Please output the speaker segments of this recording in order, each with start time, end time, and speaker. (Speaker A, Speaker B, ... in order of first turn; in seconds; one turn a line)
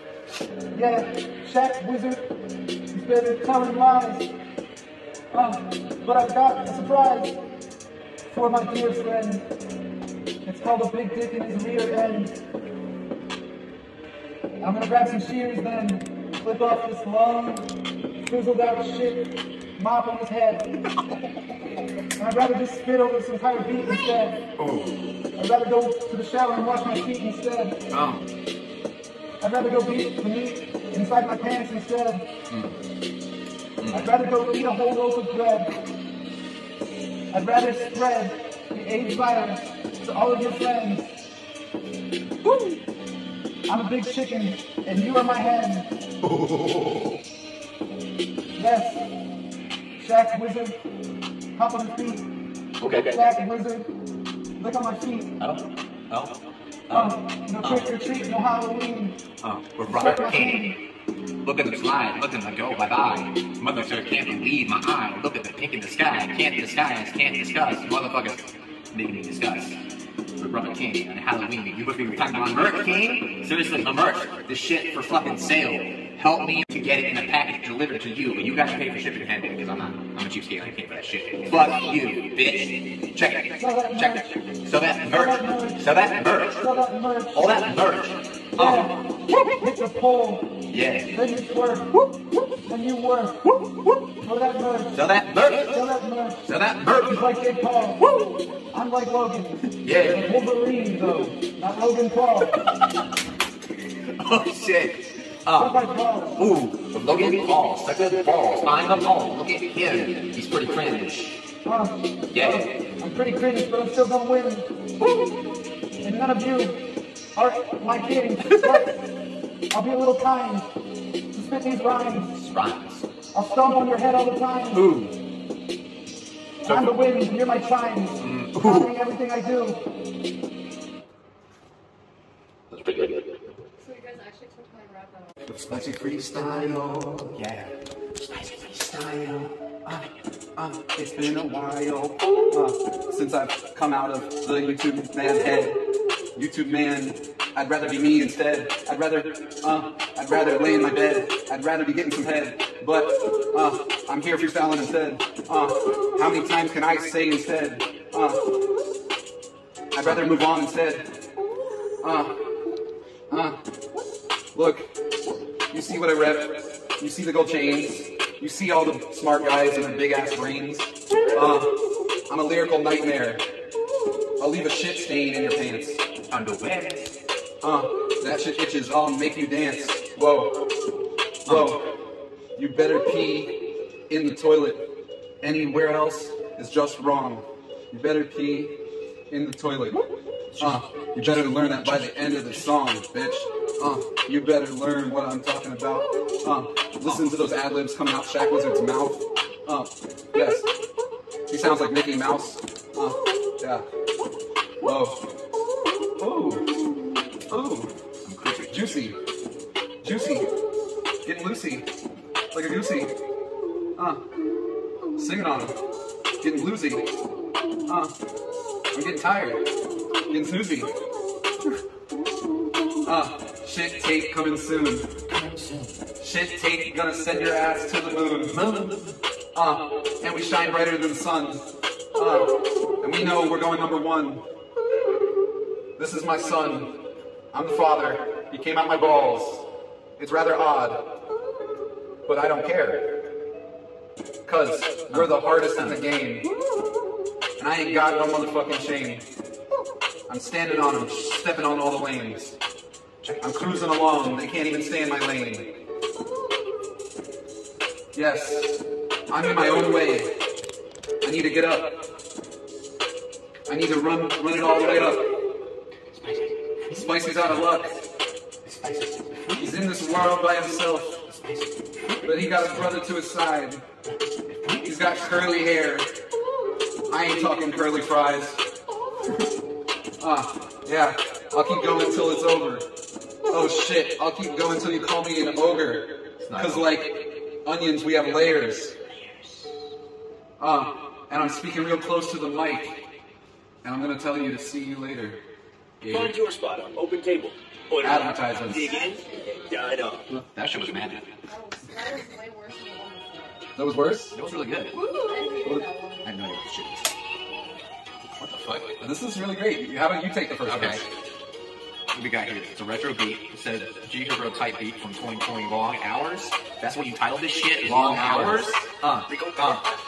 Speaker A: 0.7-2.3
Speaker A: 2.9-4.3
Speaker A: 5.3-7.4
Speaker A: 8.3-9.5
Speaker A: 10.4-12.4
Speaker A: 14.6-17.7
Speaker A: 18.2-20.7
Speaker A: 22.2-24.4
Speaker B: 24.6-24.9
Speaker A: 25.4-27.8
Speaker B: 27.9-28.2
Speaker A: 29.4-32.3
Speaker B: 32.5-32.8
Speaker B: 33.8-34.1
Speaker A: 33.9-35.7
Speaker A: 37.3-41.1
Speaker A: 43.7-45.9
Speaker B: 46.3-47.1
Speaker A: 48.5-49.1
Speaker A: 50.0-50.8
Speaker A: 51.5-52.3
Speaker B: 52.8-53.2
Speaker A: 52.9-53.9
Speaker A: 54.6-55.3
Speaker B: 55.4-56.4
Speaker B: 56.9-57.9
Speaker A: 56.9-59.2
Speaker B: 59.4-60.7
Speaker A: 59.9-60.8
Speaker B: 61.4-69.8
Speaker B: 70.4-86.6
Speaker A: 83.6-84.2
Speaker A: 85.1-87.5
Speaker B: 87.3-88.9
Speaker A: 88.6-88.9
Speaker A: 89.6-90.5
Speaker B: 90.7-91.1
Speaker A: 91.1-91.9
Speaker A: 92.7-93.4
Speaker A: 94.2-96.4
Speaker B: 94.9-95.8
Speaker B: 96.4-97.2
Speaker A: 97.0-98.0
Speaker A: 98.7-102.5
Speaker B: 99.8-100.2
Speaker B: 104.1-111.4
Speaker A: 105.6-106.4
Speaker A: 111.7-114.7
Speaker B: 112.3-112.7
Speaker A: 116.0-116.8
Speaker A: 117.4-119.0
Speaker B: 118.5-118.8
Speaker A: 119.7-120.7
Speaker A: 121.3-122.3
Speaker B: 122.4-123.1
Speaker A: 123.3-124.8
Speaker B: 124.7-125.2
Speaker B: 126.6-127.0
Speaker A: 126.6-129.8
Speaker B: 128.2-128.9
Speaker B: 132.7-133.5
Speaker C: 133.8-135.3
Speaker B: 135.5-139.5
Speaker A: 140.6-145.8
Speaker A: 146.4-158.4
Speaker A: 159.9-161.1
Speaker A: 162.0-162.3
Speaker A: 163.3-163.6
Speaker A: 164.5-164.9
Speaker A: 165.7-171.7
Speaker A: 172.3-173.4
Speaker A: 174.4-176.0
Speaker B: 176.3-177.1
Speaker A: 177.6-180.6
Speaker B: 181.5-181.8
Speaker A: 181.5-181.8
Speaker A: 182.6-183.6
Speaker A: 184.1-184.8
Speaker A: 185.4-188.8
Speaker A: 189.3-190.0
Speaker B: 190.5-192.7
Speaker A: 190.6-200.7
Speaker B: 197.0-197.3
Speaker A: 201.5-203.8
Speaker A: 204.8-205.2
Speaker A: 206.2-206.6
Speaker A: 207.5-207.9
Speaker B: 208.2-209.0
Speaker A: 208.7-209.2
Speaker A: 210.0-210.5
Speaker A: 211.2-211.9
Speaker A: 212.5-213.1
Speaker A: 214.0-214.2
Speaker A: 215.2-215.8
Speaker A: 216.4-217.1
Speaker A: 217.9-218.1
Speaker A: 218.9-219.6
Speaker A: 220.3-220.9
Speaker A: 223.1-225.1
Speaker B: 225.3-225.9
Speaker A: 226.2-228.6
Speaker B: 228.6-229.0
Speaker A: 229.6-231.6
Speaker A: 232.2-234.4
Speaker A: 236.0-236.9
Speaker A: 237.5-239.7
Speaker A: 240.2-241.0
Speaker A: 242.3-243.1
Speaker A: 244.4-246.5
Speaker B: 245.1-246.0
Speaker A: 247.6-249.3
Speaker A: 250.3-252.6
Speaker B: 253.2-253.8
Speaker A: 253.4-255.7
Speaker A: 258.1-260.3
Speaker A: 261.2-261.9
Speaker A: 263.7-265.2
Speaker B: 266.1-267.7
Speaker A: 266.9-267.9
Speaker B: 268.6-270.3
Speaker A: 269.6-271.2
Speaker B: 271.3-272.9
Speaker A: 272.2-273.8
Speaker B: 274.5-275.6
Speaker A: 274.8-276.1
Speaker A: 277.1-278.6
Speaker A: 280.2-282.9
Speaker A: 283.5-287.1
Speaker B: 286.4-287.0
Speaker A: 287.6-288.9
Speaker A: 290.6-293.0
Speaker A: 293.8-295.4
Speaker A: 296.0-296.3
Speaker D: 296.1-300.2
Speaker A: 298.0-298.8
Speaker C: 298.9-299.8
Speaker B: 300.3-301.3
Speaker C: 301.5-303.7
Speaker A: 303.8-304.4
Speaker B: 304.3-305.5
Speaker C: 305.2-306.3
Speaker A: 305.6-305.9
Speaker B: 306.2-307.0
Speaker B: 308.4-308.9
Speaker A: 309.0-311.1
Speaker B: 310.6-311.0
Speaker B: 312.1-319.8
Speaker A: 317.9-318.9
Speaker D: 319.3-319.6